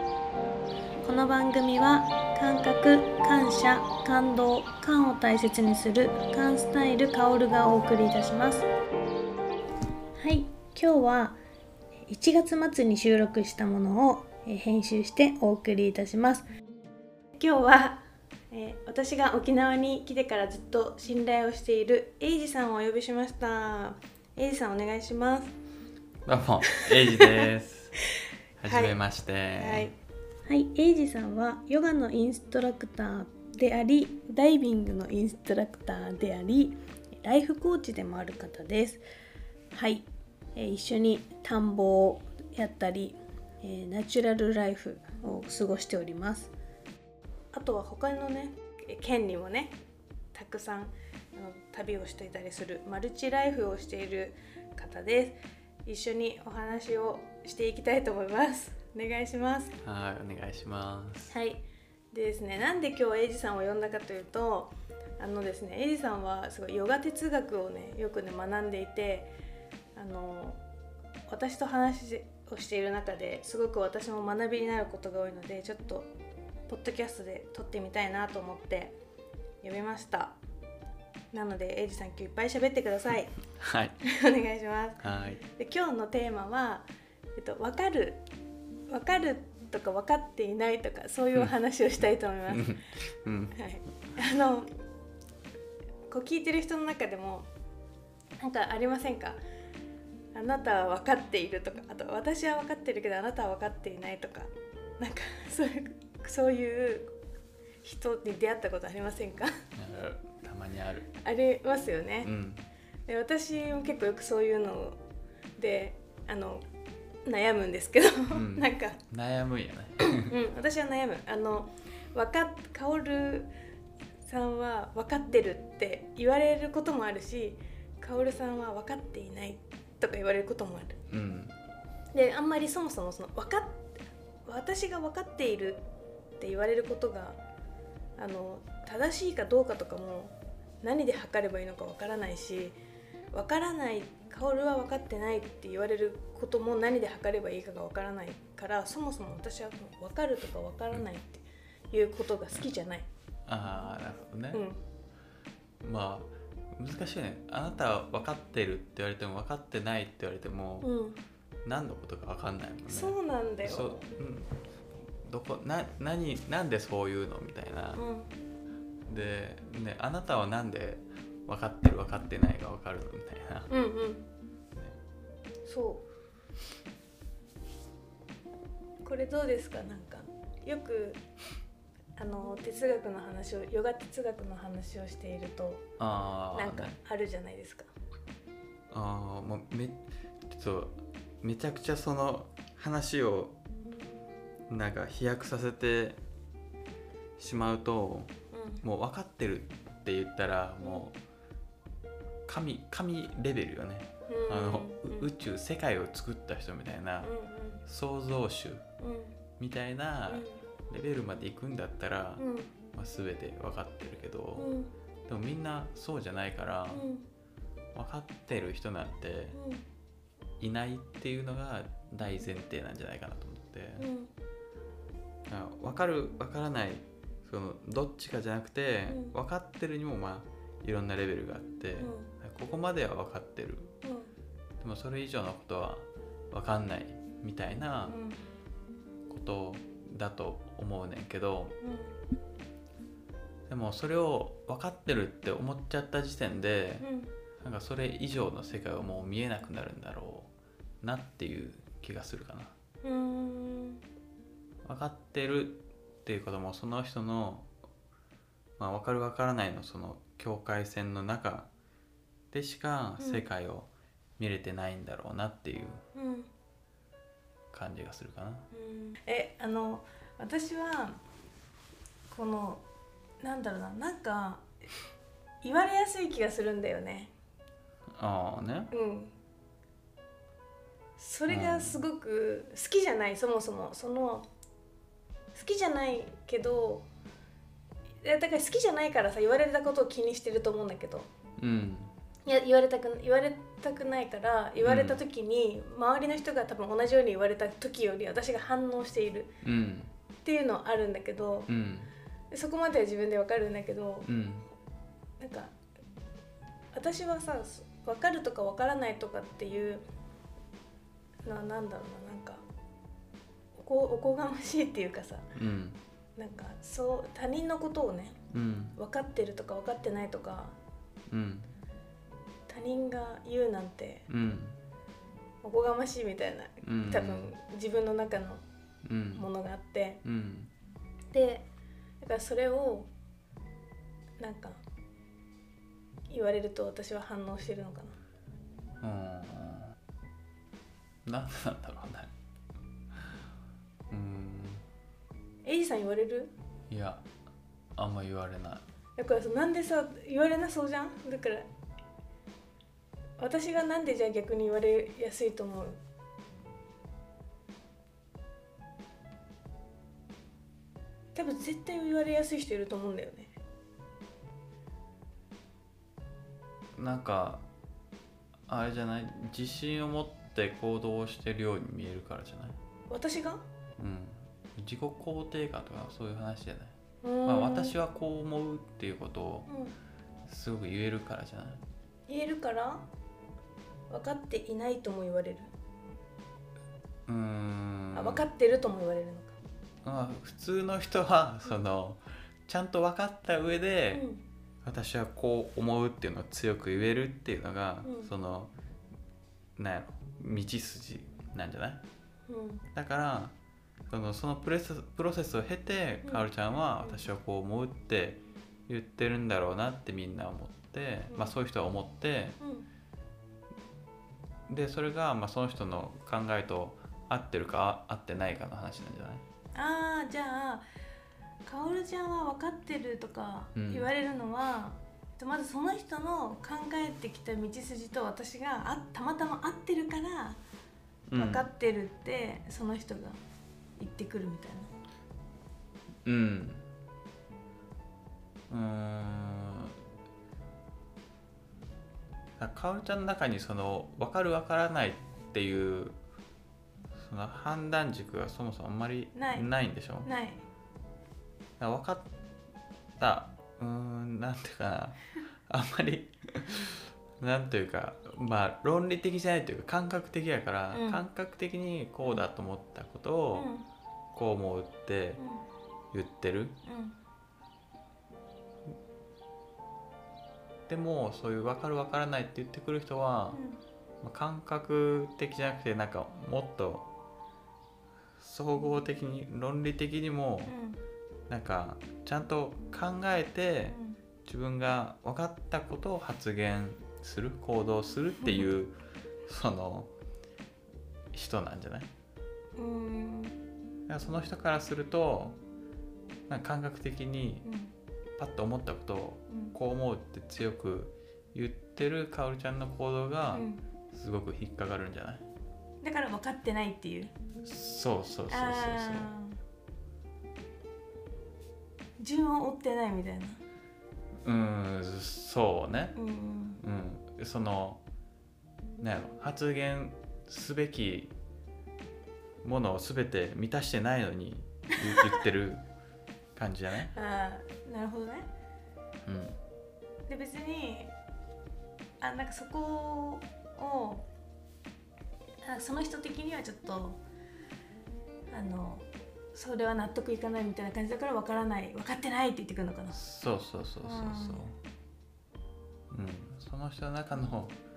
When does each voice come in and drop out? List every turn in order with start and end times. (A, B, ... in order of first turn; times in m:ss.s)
0:01.0-0:08.7 A
0:10.2-0:11.4 A
0:12.1-0:16.5 A
0:17.4-0:25.6 A
0:26.3-0:28.0 B
0:26.7-0:27.5 A
0:28.6-0:29.9 B
0:28.7-0:29.0 A
0:29.6-0:29.9 A
0:30.5-0:39.0 A
0:39.7-0:46.5 A
0:47.5-0:49.7 A
0:50.3-0:59.8 A
0:59.8-1:01.3 B
1:01.3-1:09.3 A
1:10.0-1:10.6 A
1:11.3-1:16.1 A
1:16.7-1:18.9 A
1:19.6-1:20.4 A
1:21.3-1:23.4 A
1:23.5-1:24.0 B
1:24.0-1:28.2 A
1:25.0-1:25.4 B
1:28.9-1:32.8 A
1:32.5-1:33.6 B
1:33.5-1:34.7 A
1:36.1-1:37.5 A
1:38.4-1:39.4 A
1:40.3-1:47.1 A
1:47.8-1:49.5 A
1:49.8-1:51.1 B
1:51.2-1:52.3 A
1:52.2-1:52.6 B
1:53.1-1:55.0 A
1:55.6-1:56.7 A
1:57.3-1:59.0 A
1:58.3-2:00.3 B
2:00.0-2:03.5 A
2:04.2-2:11.0 A
2:11.1-2:11.6 B
2:12.1-2:13.9 A
2:14.5-2:15.8 A
2:16.4-2:17.4 A
2:18.2-2:22.8 A
2:23.3-2:33.1 A
2:33.5-2:34.6 B
2:34.5-2:34.8 A
2:35.8-2:40.9 B
2:40.8-2:41.2 A
2:41.6-2:44.6 B
2:42.9-2:44.0 A
2:45.2-2:48.0 B
2:48.0-2:48.3 A
2:49.1-2:53.7 B
2:53.7-2:54.3 A
2:55.6-2:56.1 A
2:59.0-3:01.2 A
3:02.2-3:05.8 A
3:06.0-3:07.0 B
3:06.5-3:07.9 A
3:08.9-3:13.6 B
3:14.7-3:16.2 B
3:17.4-3:21.2 B
3:18.5-3:18.8 A
3:22.5-3:27.3 B
3:24.3-3:25.3 A
3:27.2-3:27.8 A
3:27.9-3:28.8 B
3:29.0-3:29.4 A
3:29.6-3:34.7 B
3:30.3-3:30.6 A
3:32.4-3:32.7 A
3:34.6-3:34.9 A
3:35.3-3:37.1 B
3:36.9-3:37.2 A
3:38.0-3:39.6 B
3:39.5-3:39.8 A
3:40.6-3:44.1 B
3:44.0-3:44.3 A
3:45.5-3:54.0 B
3:49.1-3:49.3 A
3:52.0-3:52.3 A
3:54.0-3:54.3 A
3:54.8-3:58.2 B
3:58.1-3:58.4 A
3:59.3-4:01.8 B
4:01.8-4:02.2 A
4:03.7-4:07.1 B
4:07.0-4:07.3 A
4:07.6-4:12.8 B
4:13.0-4:14.0 A
4:14.8-4:17.7 B
4:18.8-4:21.7 B
4:22.5-4:26.0 B
4:23.2-4:23.4 A
4:26.2-4:26.5 A
4:27.7-4:28.7 B
4:28.7-4:31.2 A
4:32.3-4:32.8 A
4:33.4-4:34.7 A
4:35.6-4:37.3 A
4:38.1-4:38.9 B
4:38.9-4:39.3 A
4:41.2-4:44.5 A
4:41.5-4:42.0 B
4:45.5-4:47.1 A
4:48.2-4:51.3 A
4:51.6-4:52.1 B
4:52.5-4:59.5 A
4:54.8-4:55.2 B
4:59.6-5:00.1 B
5:00.4-5:01.7 A
5:01.7-5:02.1 B
5:02.5-5:04.3 A
5:04.2-5:04.7 B
5:05.4-5:05.8 A
5:06.9-5:10.0 A
5:11.4-5:12.6 A
5:13.8-5:15.5 A
5:15.5-5:16.0 B
5:16.4-5:18.4 A
5:18.5-5:19.0 B
5:19.0-5:20.8 A
5:21.3-5:21.7 B
5:22.7-5:24.3 A
5:24.3-5:24.8 B
5:25.6-5:28.6 A
5:26.8-5:27.5 B
5:29.0-5:29.5 B
5:29.4-5:30.2 A
5:30.2-5:30.7 B
5:31.3-5:31.7 A
5:32.2-5:33.1 A
5:34.4-5:34.8 A
5:36.3-5:38.2 A
5:39.0-5:40.0 B
5:41.2-5:42.3 B
5:44.1-5:44.8 B
5:45.6-5:46.5 A
5:46.9-5:47.3 B
5:48.0-5:48.8 B
5:49.2-5:51.7 A
5:53.4-5:56.0 A
6:01.4-6:03.5 A
6:07.0-6:07.6 B
6:08.7-6:12.8 B
6:13.1-6:13.6 A
6:14.0-6:19.7 B
6:17.2-6:18.0 A
6:19.7-6:20.0 A
6:20.5-6:21.8 B
6:22.3-6:23.1 A
6:24.1-6:25.7 A
6:27.3-6:28.5 B
6:28.1-6:29.6 A
6:30.0-6:34.2 B
6:34.1-6:34.4 A
6:34.8-6:38.7 B
6:38.0-6:38.3 A
6:39.8-6:42.0 B
6:42.5-6:42.8 A
6:42.9-6:43.6 B
6:44.1-6:52.6 B
6:51.3-6:51.6 A
6:52.6-6:52.9 A
6:54.7-6:59.4 B
6:59.8-7:00.8 A
7:01.6-7:10.6 A
7:03.8-7:04.1 B
7:11.3-7:11.7 B
7:11.4-7:13.4 A
7:14.0-7:14.9 A
7:16.2-7:16.9 B
7:18.7-7:20.0 B
7:22.6-7:26.2 B
7:27.2-7:30.3 B
7:29.4-7:29.7 A
7:30.2-7:30.6 A
7:31.8-7:32.3 B
7:33.2-7:43.7 B
7:40.9-7:41.2 A
7:43.6-7:43.9 A
7:44.3-7:45.4 B
7:45.4-7:45.6 A
7:46.1-7:46.8 B
7:46.8-7:47.2 A
7:50.9-7:53.6 B
7:53.5-7:53.8 A
7:54.2-7:57.1 B
7:58.4-8:00.7 B
8:00.7-8:01.0 A
8:01.5-8:09.0 B
8:03.9-8:04.2 A
8:09.5-8:10.1 B
8:11.3-8:12.1 B
8:12.8-8:13.6 A
8:14.1-8:15.6 B
8:16.5-8:17.6 B
8:17.6-8:17.9 A
8:18.4-8:25.4 B
8:19.5-8:19.8 A
8:23.5-8:23.8 A
8:26.0-8:27.3 A
8:27.6-8:29.3 B
8:28.5-8:29.6 A
8:32.2-8:33.6 A
8:34.4-8:36.2 B
8:36.2-8:36.8 A
8:36.8-8:38.0 B
8:39.0-8:41.3 B
8:42.6-8:45.8 B
8:45.1-8:45.4 A
8:46.6-8:47.1 B
8:47.1-8:48.5 A
8:49.3-8:49.6 B
8:50.3-8:51.1 A
8:52.2-8:54.3 A
8:55.6-8:57.2 A
8:58.5-9:03.2 A
9:03.1-9:04.8 B
9:04.0-9:04.6 A
9:06.1-9:07.8 B